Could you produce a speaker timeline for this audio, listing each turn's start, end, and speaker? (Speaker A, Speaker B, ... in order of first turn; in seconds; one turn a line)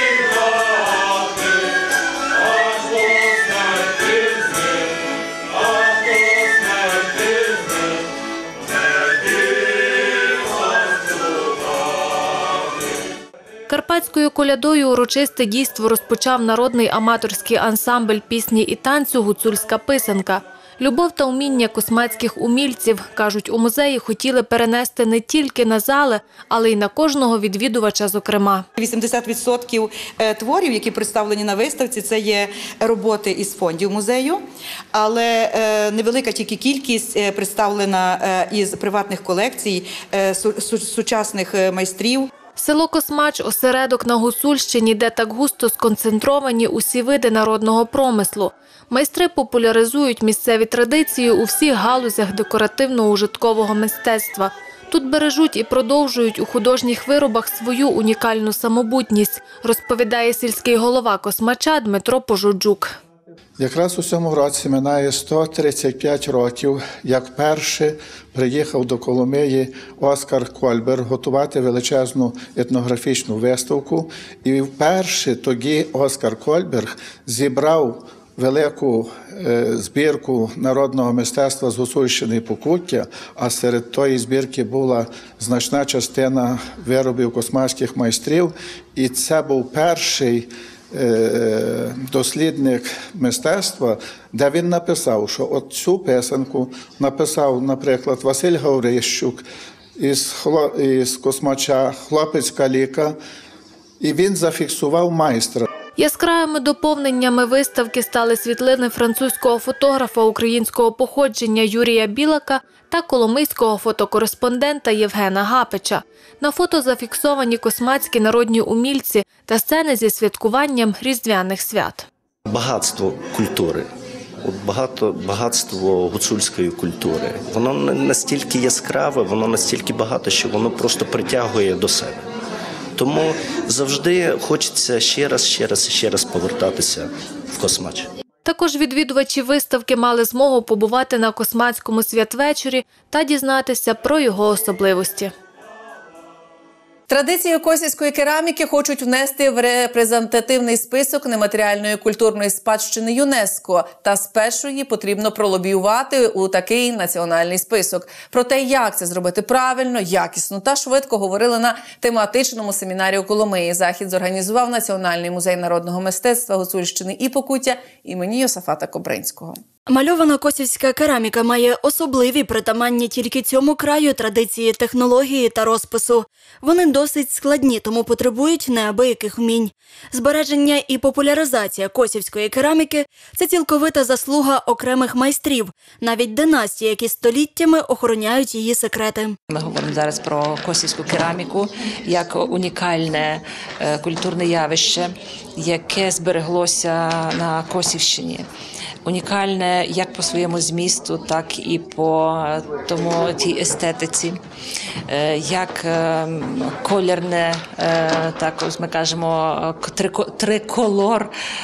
Speaker A: 13.7-28.7
Speaker B: 28.8-42.3
Speaker A: 42.6-63.0
Speaker C: 63.6-99.4
Speaker C: 100.0-103.2
Speaker C: 104.0-105.7
Speaker A: 106.0-122.1
Speaker D: 122.5-123.9
Speaker D: 124.4-132.2
Speaker D: 133.0-138.1
Speaker A: 138.4-145.3
Speaker E: 147.1-169.6
Speaker F: 169.9-189.4
Speaker G: 189.5-198.5
Speaker G: 199.0-204.4
Speaker G: 205.1-211.3